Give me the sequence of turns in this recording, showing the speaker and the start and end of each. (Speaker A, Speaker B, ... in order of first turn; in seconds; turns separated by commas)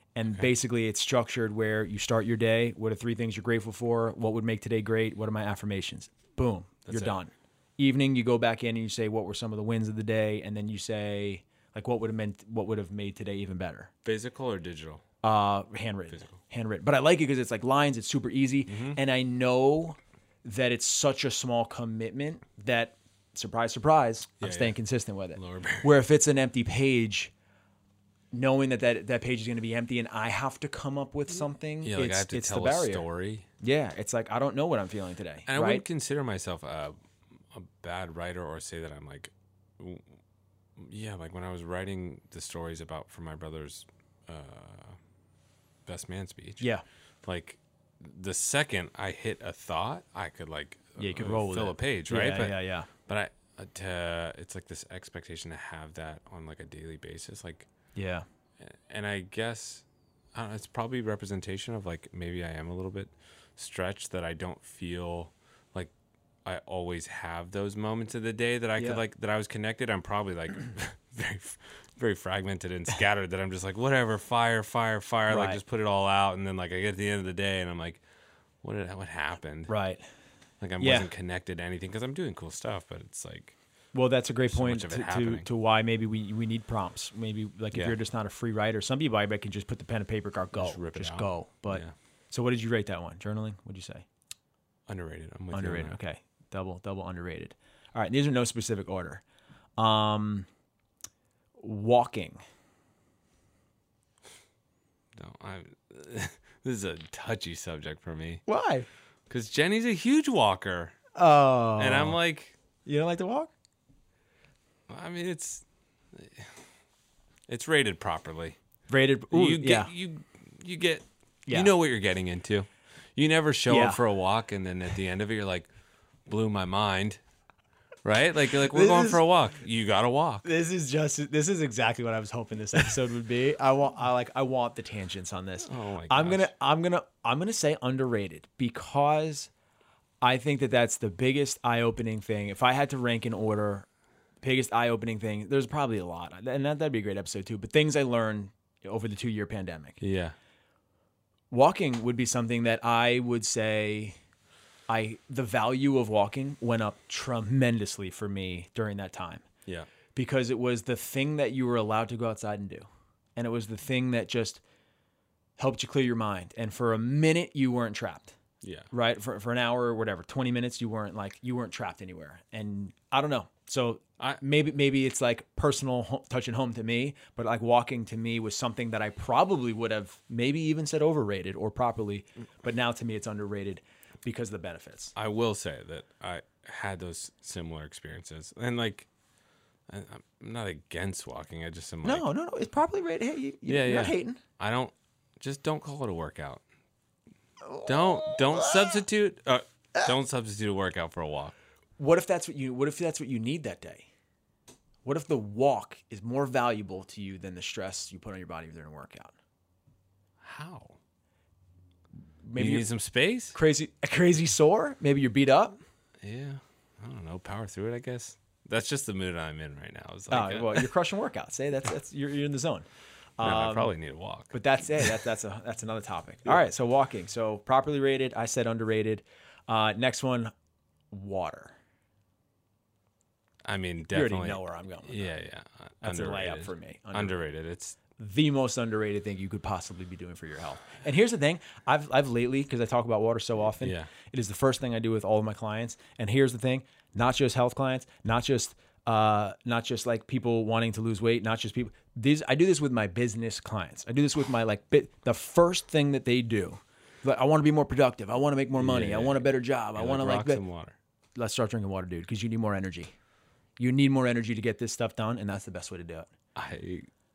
Speaker A: 0.1-13.9, Speaker B: 6.9-7.2, Speaker B: 14.1-15.0, Speaker A: 15.2-27.3, Speaker B: 16.1-16.4, Speaker B: 18.7-19.0, Speaker B: 24.4-24.8, Speaker B: 25.4-25.9, Speaker A: 28.3-33.0, Speaker B: 31.8-33.5, Speaker A: 33.6-35.8, Speaker B: 35.5-40.2, Speaker B: 40.8-45.0, Speaker B: 45.9-46.6, Speaker B: 47.2-57.7, Speaker A: 51.0-52.9, Speaker A: 58.0-58.3, Speaker B: 58.6-65.9, Speaker B: 66.5-78.0, Speaker A: 75.3-75.6, Speaker B: 78.6-79.7, Speaker A: 79.7-80.0, Speaker B: 80.6-83.6, Speaker A: 80.8-81.1, Speaker A: 83.9-94.1, Speaker B: 84.5-85.5, Speaker B: 90.5-91.9, Speaker B: 94.9-96.0, Speaker A: 95.5-99.2, Speaker A: 99.8-100.5, Speaker A: 101.6-102.4, Speaker B: 105.2-108.4, Speaker A: 108.5-108.9, Speaker B: 109.3-111.0, Speaker A: 111.2-112.2, Speaker B: 111.8-112.6, Speaker A: 112.9-113.5, Speaker B: 114.9-116.6, Speaker B: 117.5-118.6, Speaker A: 118.9-119.9, Speaker B: 119.3-125.7, Speaker A: 123.7-124.0, Speaker B: 126.3-127.2, Speaker B: 128.0-130.5, Speaker A: 128.6-129.2, Speaker A: 130.4-139.5, Speaker B: 135.6-136.5, Speaker A: 140.2-143.9, Speaker A: 144.4-150.0, Speaker B: 150.0-150.3, Speaker A: 151.5-154.2, Speaker A: 154.9-159.4, Speaker A: 160.1-164.6, Speaker A: 165.6-168.4, Speaker B: 168.6-168.9, Speaker A: 168.9-185.1, Speaker B: 185.2-189.1, Speaker B: 189.9-192.2, Speaker A: 192.0-194.4, Speaker B: 193.7-196.6, Speaker A: 197.6-199.0, Speaker B: 197.8-201.6, Speaker A: 202.0-204.1, Speaker A: 205.1-209.3, Speaker B: 210.4-211.0, Speaker A: 212.4-212.9, Speaker B: 212.6-213.6, Speaker A: 213.5-215.8, Speaker B: 216.2-220.9, Speaker A: 220.3-222.9, Speaker A: 223.4-223.9, Speaker B: 223.4-225.1, Speaker A: 224.5-230.5, Speaker A: 231.1-231.8, Speaker B: 233.7-238.0, Speaker A: 234.1-235.3, Speaker A: 236.0-237.4, Speaker A: 238.2-260.6, Speaker B: 243.8-244.1, Speaker B: 258.8-261.0, Speaker A: 261.4-263.1, Speaker A: 263.8-266.3, Speaker B: 266.6-267.1